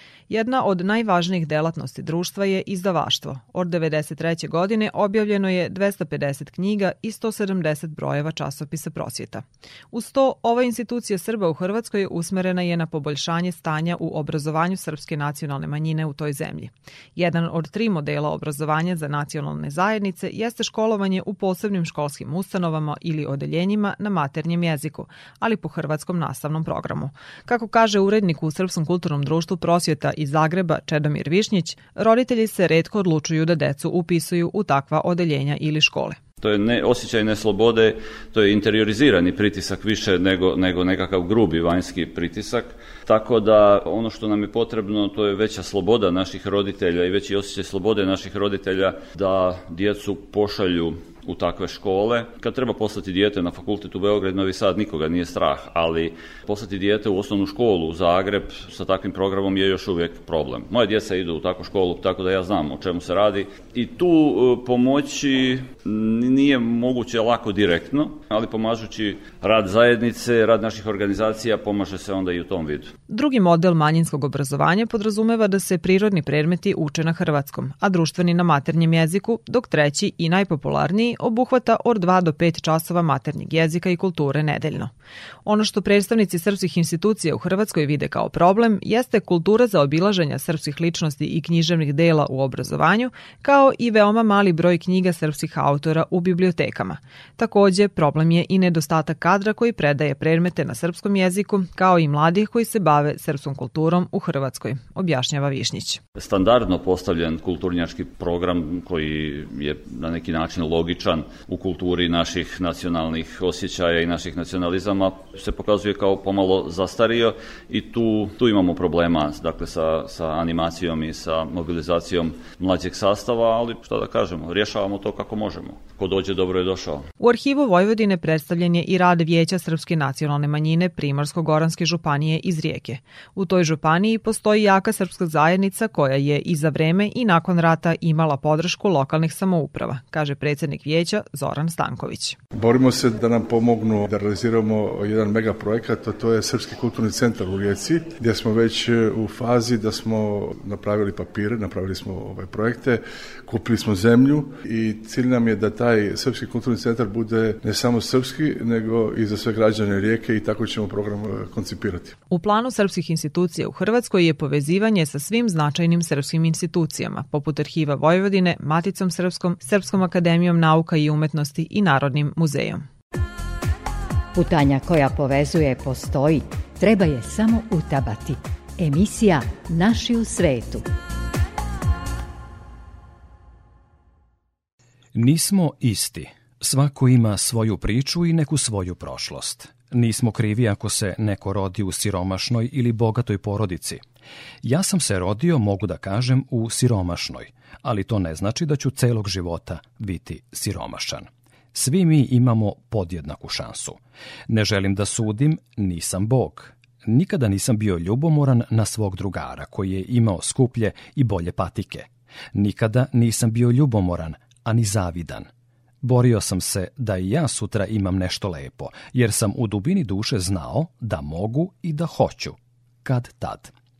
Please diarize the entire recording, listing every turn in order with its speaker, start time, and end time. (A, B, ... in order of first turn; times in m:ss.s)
0:00.3-0:36.2 A
0:36.4-1:12.9 B
1:13.1-1:24.9 A
1:25.4-1:46.0 A
1:46.2-2:07.0 B
2:07.2-2:22.4 A
2:22.5-2:42.1 C
2:42.3-2:52.8 A
2:54.4-3:00.8 D
3:05.1-3:14.0 E
3:14.6-3:35.5 E
3:36.0-3:43.7 E